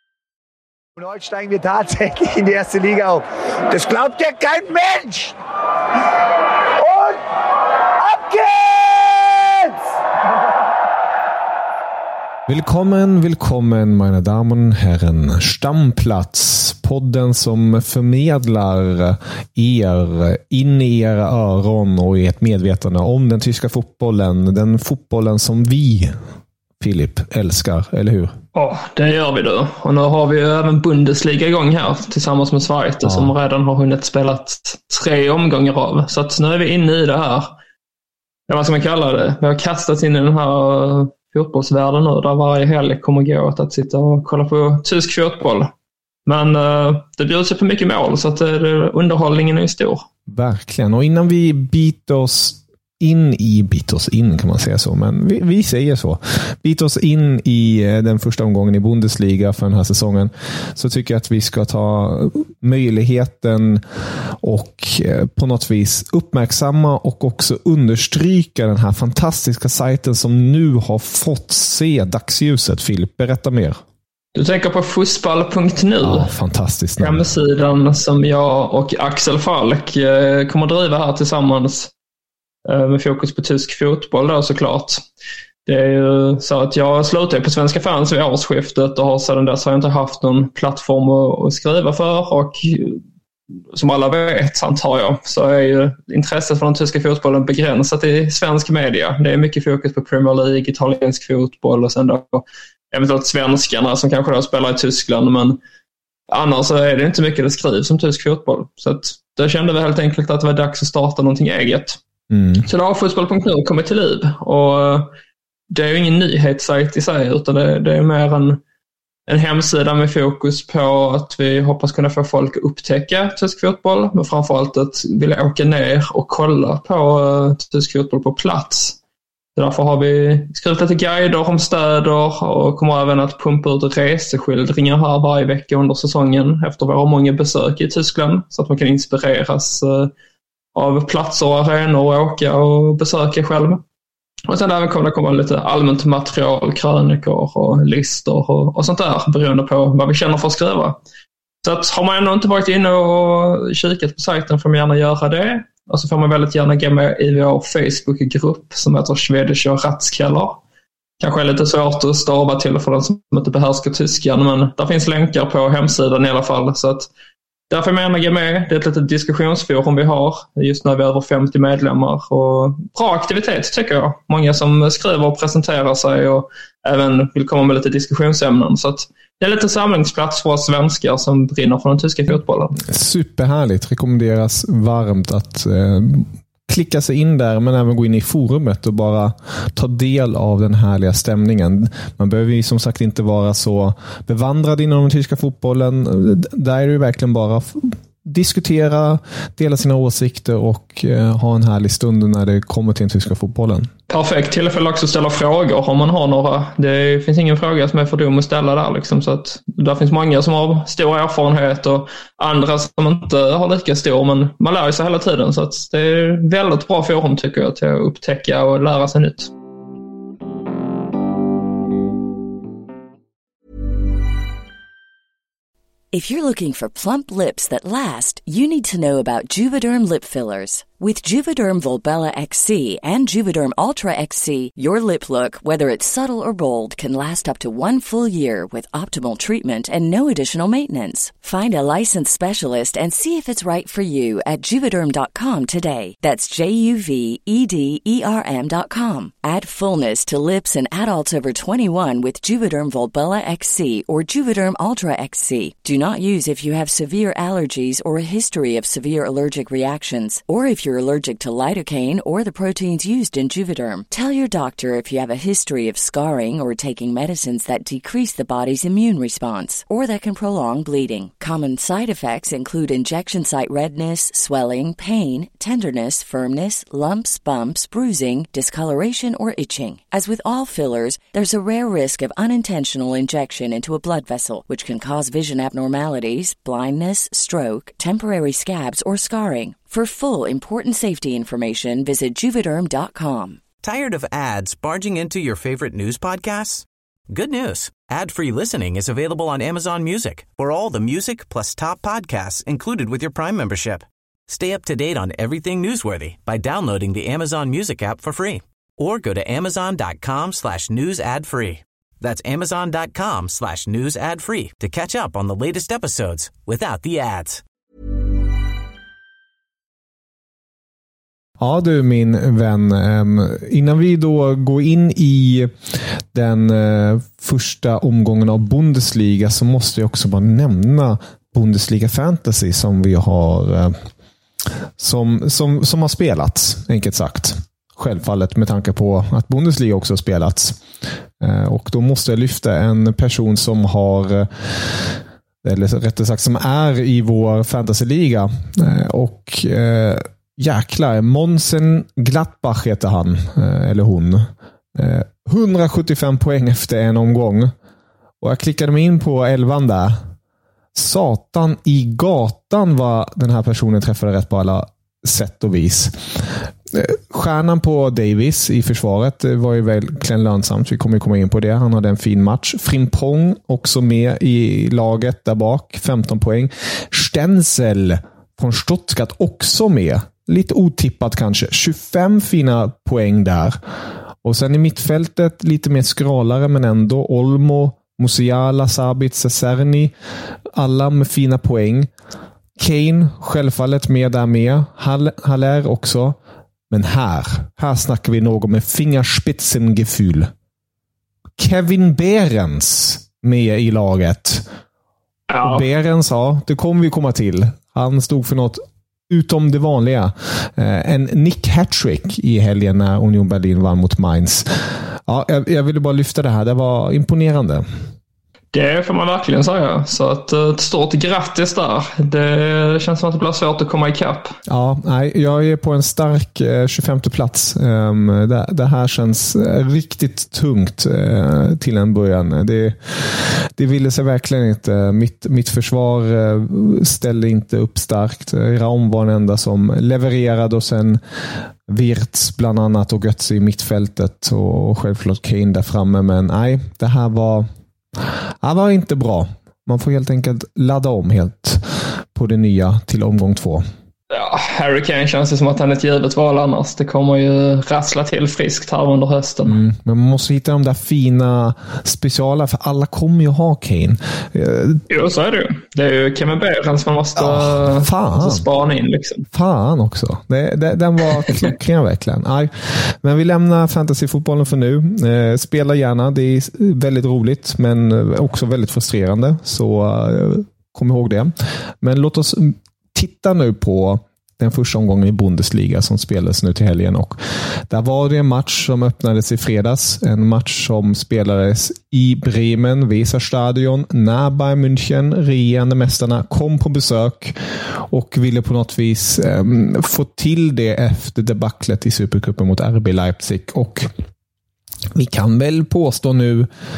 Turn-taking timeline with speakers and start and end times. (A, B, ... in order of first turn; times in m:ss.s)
0:01.0-0:05.4 A
0:06.8-0:07.2 A
0:08.0-0:09.7 A
0:12.5-0:26.2 B
0:26.8-0:28.4 B
0:28.5-0:37.6 C
0:33.0-0:33.4 B
0:38.5-0:45.7 C
0:46.3-0:50.0 C
0:50.3-1:03.8 B
1:04.4-1:13.8 B
1:14.4-1:16.3 C
1:16.0-1:17.3 B
1:17.0-1:21.9 C
1:22.7-1:25.0 C
1:25.7-1:33.0 C
1:33.7-1:45.6 C
1:46.3-1:52.0 C
1:52.3-1:52.6 B
1:52.6-1:55.1 C
1:55.7-1:58.6 C
1:59.3-2:09.0 C
2:09.6-2:20.1 C
2:20.8-2:23.8 C
2:24.5-2:31.0 C
2:31.6-2:40.6 C
2:41.2-2:47.1 C
2:47.7-3:02.8 C
3:02.9-3:23.9 B
3:24.1-3:39.5 C
3:46.1-4:53.6 D
4:53.8-5:17.6 E
5:21.6-5:34.1 B
5:35.0-5:40.8 B
5:41.4-5:57.7 B
5:58.4-6:00.2 B
6:00.9-6:06.3 B
6:06.9-6:23.8 B
6:24.4-6:30.1 B
6:30.8-6:32.1 B
6:32.8-6:36.4 B
6:36.9-6:40.5 B
6:41.6-6:44.6 B
6:45.5-6:45.9 C
6:45.6-6:54.7 B
6:55.3-6:57.8 B
6:58.7-7:04.6 C
7:04.7-7:21.2 B
7:21.9-7:27.7 B
7:28.6-7:33.8 B
7:34.3-7:39.8 C
7:39.7-7:45.0 B
7:45.1-7:49.5 C
7:47.4-7:48.7 B
7:49.5-8:07.4 B
8:07.9-8:17.6 B
8:18.1-8:24.1 B
8:25.2-8:26.7 B